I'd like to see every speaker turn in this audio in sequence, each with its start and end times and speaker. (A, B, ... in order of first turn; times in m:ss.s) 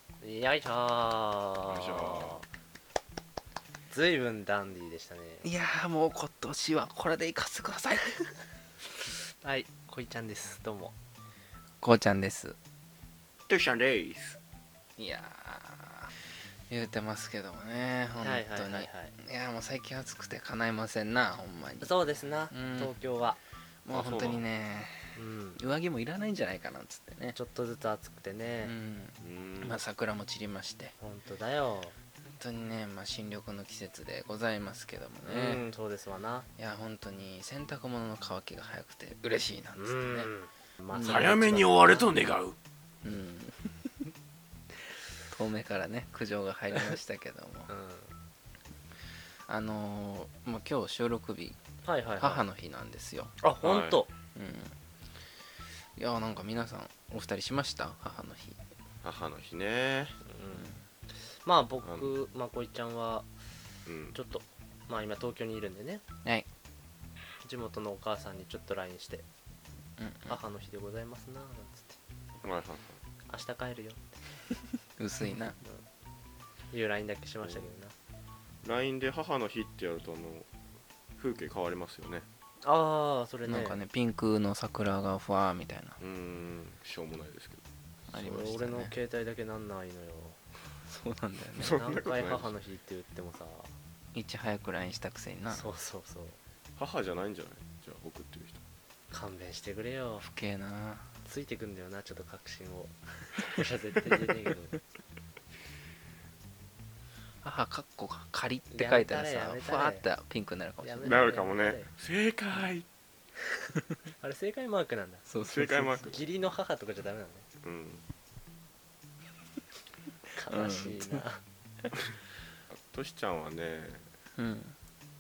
0:00.2-0:02.4 A
0:01.7-0:02.4 B
0:03.9-0:05.5 A
0:05.4-0:08.1 C
0:09.4-0:11.0 A
0:11.8-0:12.6 C
0:13.5-0:14.4 B
0:15.0-0:16.1 C
0:16.7-0:21.9 C
0:18.2-0:19.2 A
0:21.8-0:23.4 A
0:22.5-0:22.9 C
0:23.8-0:27.4 C
0:23.9-0:24.4 B
0:25.2-0:25.6 A
0:27.4-0:28.7 A
0:28.6-0:30.9 C
0:29.2-0:29.8 B
0:31.0-0:32.0 A
0:32.2-0:35.7 C
0:35.3-0:36.5 A
0:36.6-0:40.3 C
0:39.8-0:42.1 A
0:40.9-0:41.4 C
0:41.0-0:42.6 B
0:43.0-0:44.1 C
0:45.3-0:47.7 C
0:47.7-0:48.1 A
0:49.5-0:51.6 C
0:51.8-0:52.4 A
0:52.2-0:53.3 C
0:53.4-0:54.1 A
0:53.6-0:54.0 B
0:54.4-0:54.8 C
0:56.0-0:58.6 C
0:59.0-1:00.2 B
1:00.2-1:00.7 A
1:00.6-1:00.8 C
1:01.3-1:03.3 A
1:01.8-1:02.1 B
1:03.9-1:04.2 B
1:04.1-1:06.0 A
1:07.4-1:09.3 A
1:10.0-1:10.4 C
1:10.3-1:12.0 A
1:12.4-1:13.0 B
1:13.3-1:14.1 A
1:15.0-1:15.6 C
1:16.7-1:17.9 A
1:18.6-1:20.5 B
1:21.2-1:22.3 B
1:22.6-1:23.8 A
1:23.5-1:26.0 C
1:26.0-1:27.6 B
1:28.1-1:28.9 C
1:28.1-1:30.4 A
1:30.9-1:31.8 C
1:31.6-1:32.5 B
1:31.6-1:33.7 A
1:34.1-1:35.7 C
1:35.5-1:36.4 A
1:36.8-1:38.6 B
1:39.1-1:40.3 A
1:40.2-1:41.1 C
1:41.2-1:44.8 A
1:47.4-1:51.3 C
1:48.7-1:50.0 A
1:50.8-1:51.9 A
1:51.0-1:52.9 B
1:54.2-1:55.2 A
1:55.3-1:56.1 C
1:55.5-1:56.3 B
1:56.1-1:57.5 A
1:57.6-1:58.0 B
2:00.4-2:01.4 A
2:00.5-2:01.2 C
2:02.7-2:04.0 B
2:04.4-2:04.8 C